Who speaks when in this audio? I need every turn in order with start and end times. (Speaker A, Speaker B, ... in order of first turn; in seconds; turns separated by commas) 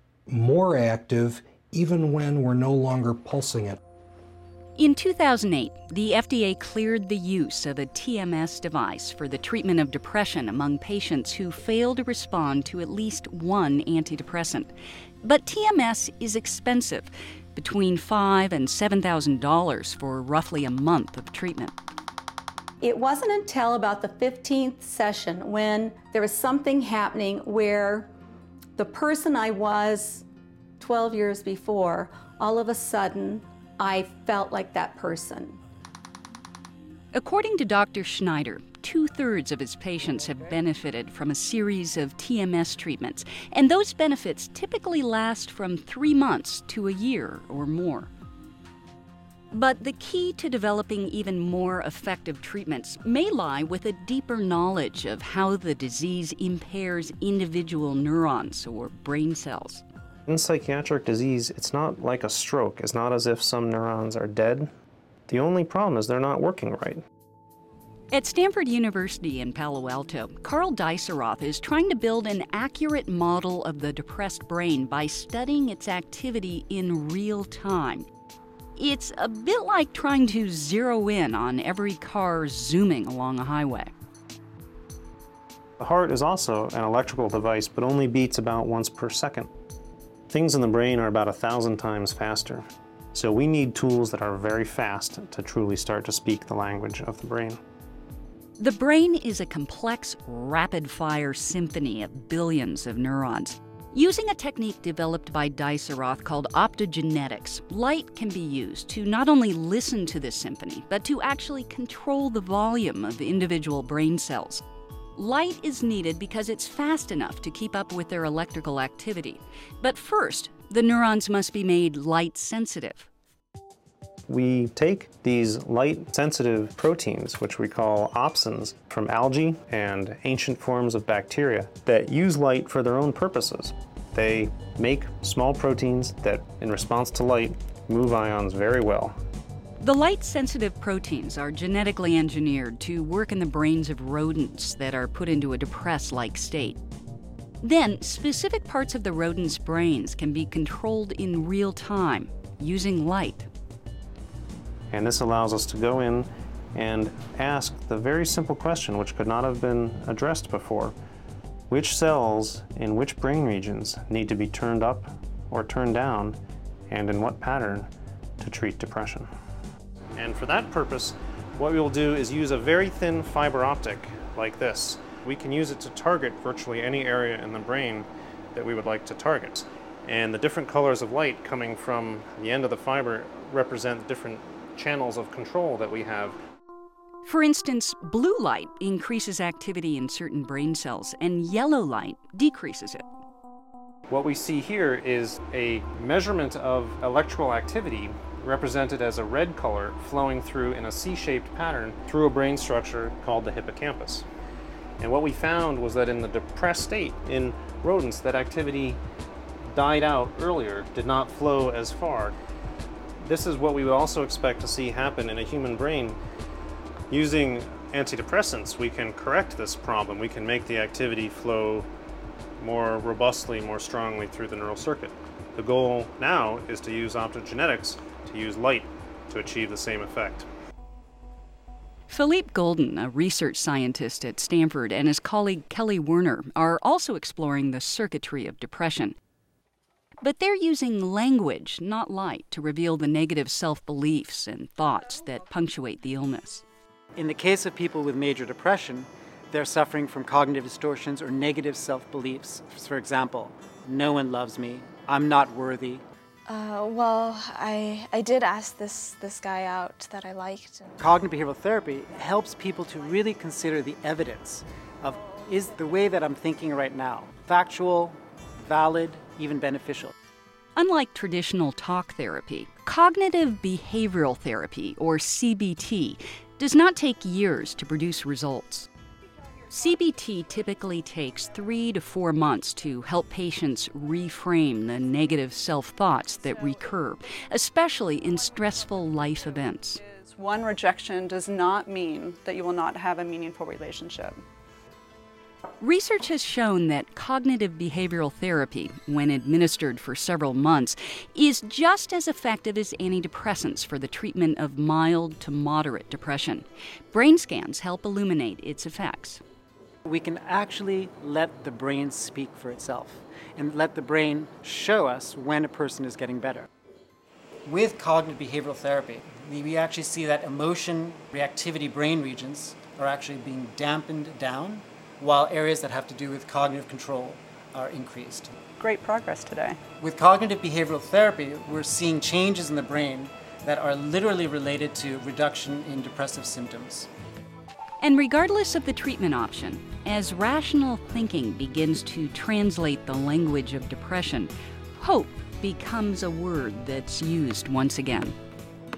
Speaker A: 0.3-3.8, Speaker B: 4.8-21.7, Speaker C: 22.8-28.1, Speaker C: 28.8-30.2, Speaker C: 30.8-35.6, Speaker B: 37.1-48.1, Speaker B: 49.5-59.8, Speaker D: 60.3-64.7, Speaker D: 65.3-67.0, Speaker B: 68.1-78.1, Speaker B: 78.8-83.9, Speaker D: 85.8-89.5, Speaker D: 90.3-97.6, Speaker B: 98.6-114.6, Speaker B: 115.2-123.1, Speaker D: 124.3-139.2, Speaker B: 139.8-146.8, Speaker B: 147.6-153.5, Speaker D: 154.9-160.9, Speaker D: 161.7-169.3, Speaker D: 170.2-186.4, Speaker B: 187.2-193.1, Speaker D: 194.1-204.2, Speaker D: 205.0-209.0, Speaker D: 209.7-212.3, Speaker D: 213.2-216.2, Speaker D: 217.1-221.9, Speaker D: 222.6-230.5, Speaker B: 232.1-239.2, Speaker B: 240.2-246.6, Speaker E: 247.2-256.0, Speaker F: 256.5-260.9, Speaker E: 261.0-270.1, Speaker B: 270.8-278.9, Speaker B: 279.7-290.0, Speaker G: 290.0-294.4, Speaker B: 295.8-309.4, Speaker E: 310.1-316.7, Speaker E: 317.6-328.5, Speaker G: 328.8-329.8, Speaker E: 330.0-337.1, Speaker B: 338.0-348.4